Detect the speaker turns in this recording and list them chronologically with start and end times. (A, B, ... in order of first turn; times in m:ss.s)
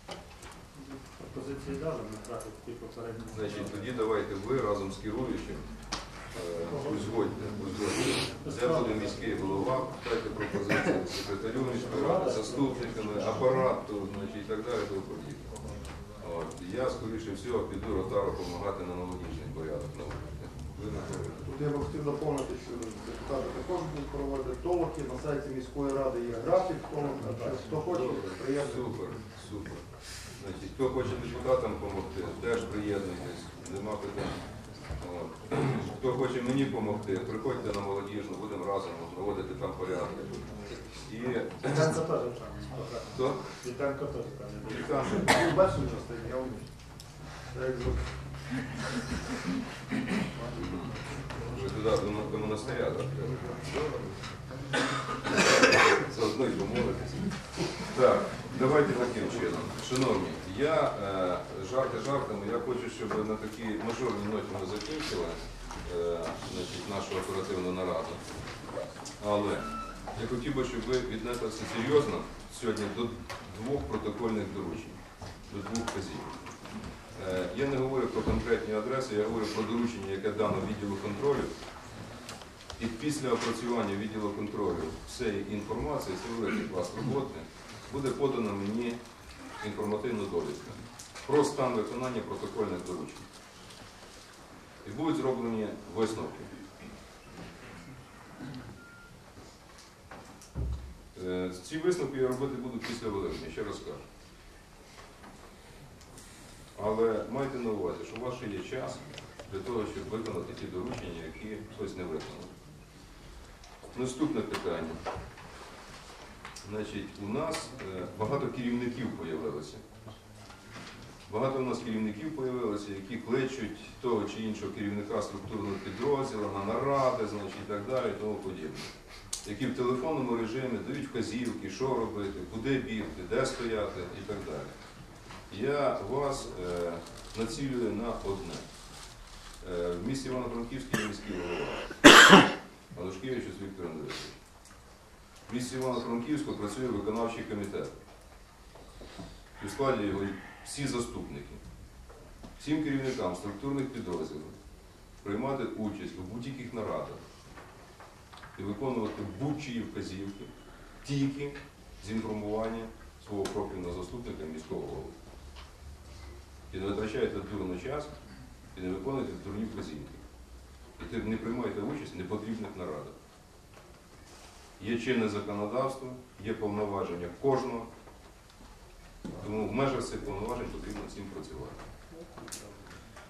0:00.8-0:03.9 A
0:03.3-0:21.4 B
0:06.6-0:07.1 A
0:08.0-0:09.8 A
0:11.5-0:13.6 A
0:21.4-0:28.9 C
0:27.2-0:28.3 A
0:28.0-0:42.0 B
0:41.6-0:45.6 A
0:43.1-0:43.6 B
0:44.6-0:45.4 B
0:45.2-0:46.8 C
0:47.5-0:48.1 C
0:50.3-0:50.8 C
0:50.5-0:53.5 B
0:53.2-0:54.2 C
0:55.7-1:08.2 B
1:09.2-1:16.4 B
1:17.1-1:21.5 B
1:22.8-1:29.0 B
1:29.6-1:33.3 B
1:34.8-1:36.5 B
1:41.1-1:44.0 B
1:46.7-1:52.6 B
1:53.9-1:55.0 B
1:56.6-1:59.8 B
2:01.3-2:08.9 B
2:09.4-2:14.7 B
2:15.5-2:18.7 B
2:19.6-2:21.9 B
2:22.9-2:24.4 B
2:25.5-2:27.9 B
2:29.6-2:31.6 B
2:32.6-2:34.6 B
2:35.2-2:37.2 B
2:38.5-2:45.1 B
2:46.7-2:48.1 B
2:48.7-2:50.2 B
2:51.0-2:53.2 B
2:54.8-2:57.9 B
2:59.4-3:01.8 B
3:02.1-3:02.7 A